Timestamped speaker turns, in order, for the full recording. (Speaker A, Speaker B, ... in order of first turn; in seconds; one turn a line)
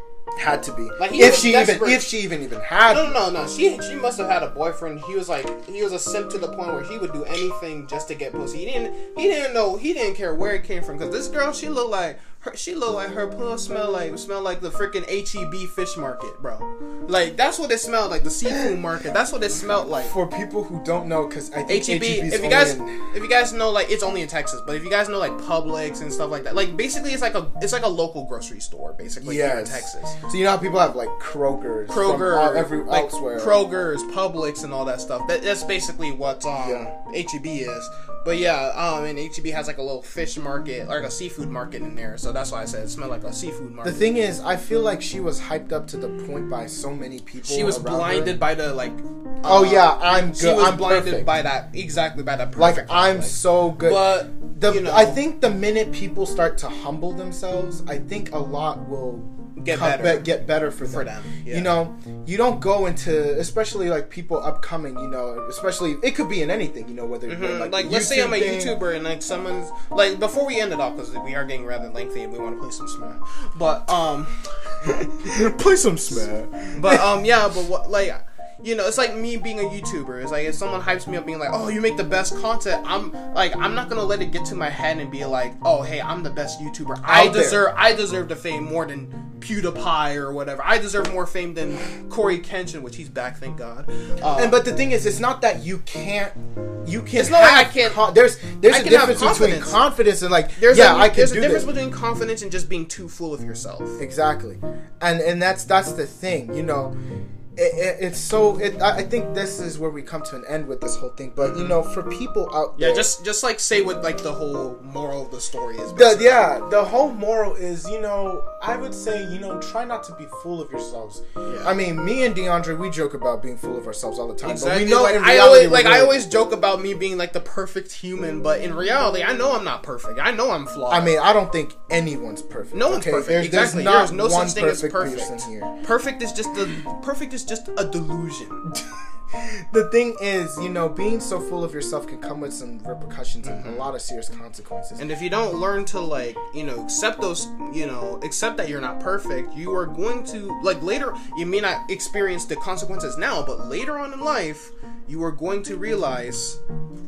Speaker A: 0.3-3.2
Speaker B: 1.0-2.1
Speaker B: 2.9-20.1
Speaker A: 20.0-23.0
Speaker B: 21.7-30.1
Speaker A: 29.2-33.6
Speaker B: 31.9-44.0
Speaker A: 36.6-36.9
Speaker A: 43.8-48.4
Speaker B: 47.4-55.2
Speaker A: 49.4-51.3
Speaker A: 52.5-68.8
Speaker B: 59.6-61.8
Speaker B: 67.2-74.3
Speaker A: 74.8-77.1
Speaker B: 76.7-94.6
Speaker A: 87.0-87.7
Speaker A: 94.3-101.7
Speaker B: 97.1-98.0
Speaker B: 98.7-99.9
Speaker B: 100.6-104.0
Speaker A: 104.0-106.9
Speaker A: 107.5-113.1
Speaker B: 111.4-111.8
Speaker B: 112.8-116.5
Speaker A: 115.9-126.2
Speaker B: 121.4-121.8
Speaker B: 124.4-131.2
Speaker A: 130.9-135.7
Speaker B: 132.7-138.7
Speaker A: 139.3-145.1
Speaker B: 143.4-143.9
Speaker B: 145.0-156.6